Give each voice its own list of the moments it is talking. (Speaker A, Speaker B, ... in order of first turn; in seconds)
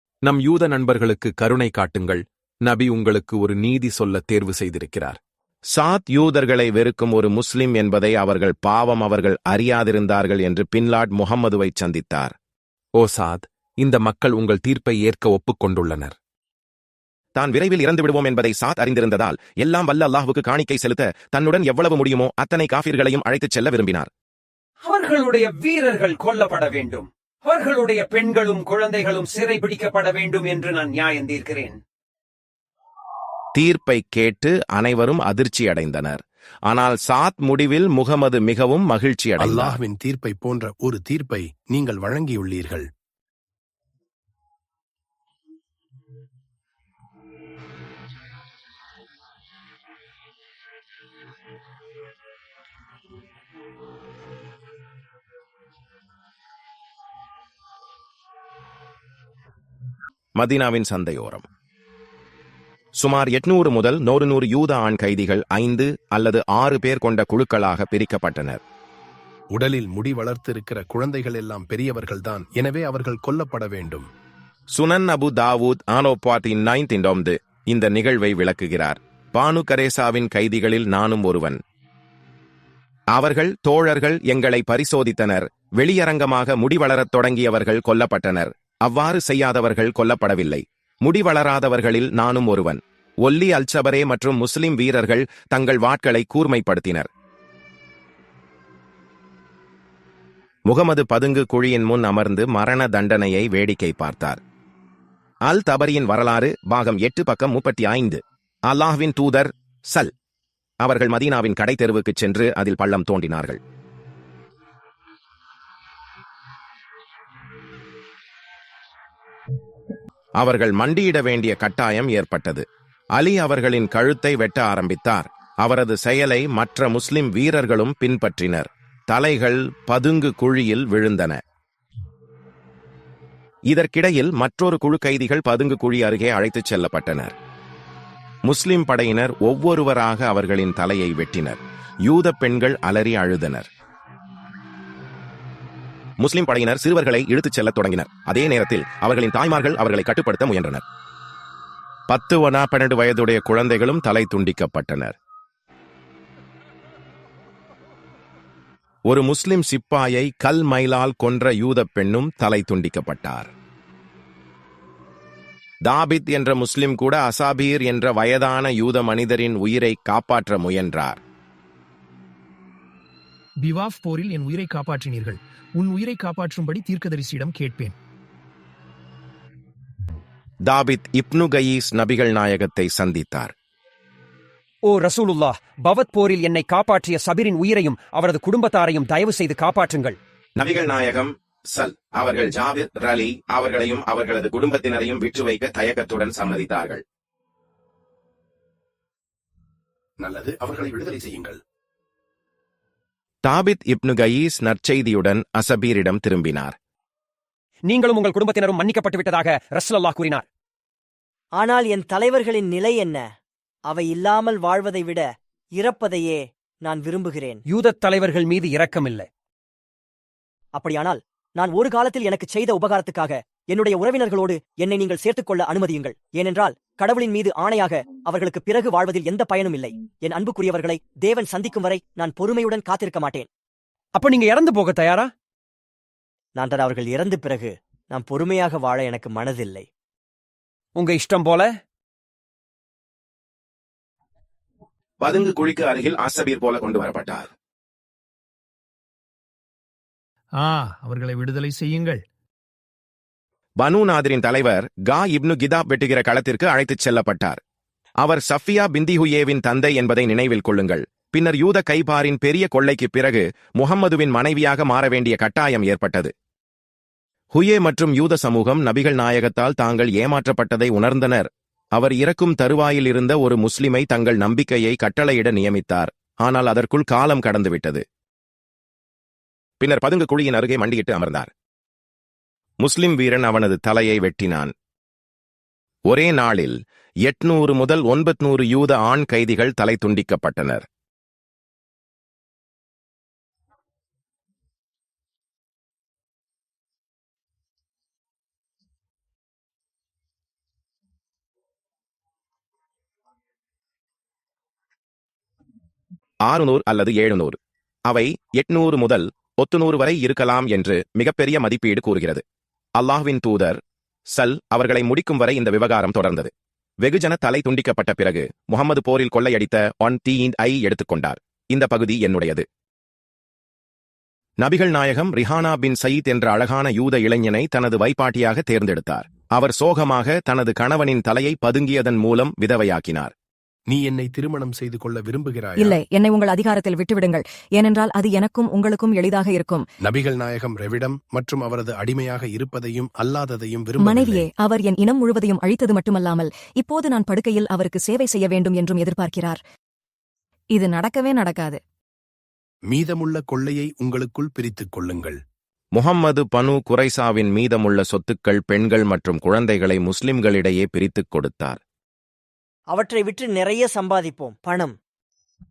Speaker A: 0.2-5.2, 12.9-16.1
Speaker B: 5.7-12.3, 17.4-24.1, 33.5-39.8, 60.4-61.5, 63.0-68.6, 74.7-81.6, 83.1-97.1, 100.7-104.4, 105.5-110.1, 110.8-113.6, 120.4-131.4, 133.7-137.3, 138.4-143.7, 146.2-150.8, 152.1-155.2, 159.1-163.5, 165.8-171.2, 180.7-183.5, 190.6-197.0, 203.4-206.7, 245.2-247.5, 253.8-257.6, 258.2-266.3, 267.5-278.0, 279.8-281.5, 282.8-284.7, 286.1-290.8, 306.4-312.4, 313.0-316.5, 317.0-322.6, 324.6-333.3, 355.9-361.8
Speaker C: 24.8-31.8, 184.9-190.2, 207.8-210.4, 217.7-219.3, 234.1-235.3, 240.9-241.7
Speaker D: 39.4-42.9, 69.5-74.1, 200.2-201.6, 333.9-336.0, 340.0-344.4, 352.9-355.4
Speaker E: 173.6-177.9, 250.6-252.2
Speaker F: 211.6-213.2, 213.9-215.2, 215.8-217.6, 220.7-233.5, 236.6-239.8, 362.9-364.9
Speaker G: 335.8-339.9, 344.0-349.6, 350.7-351.8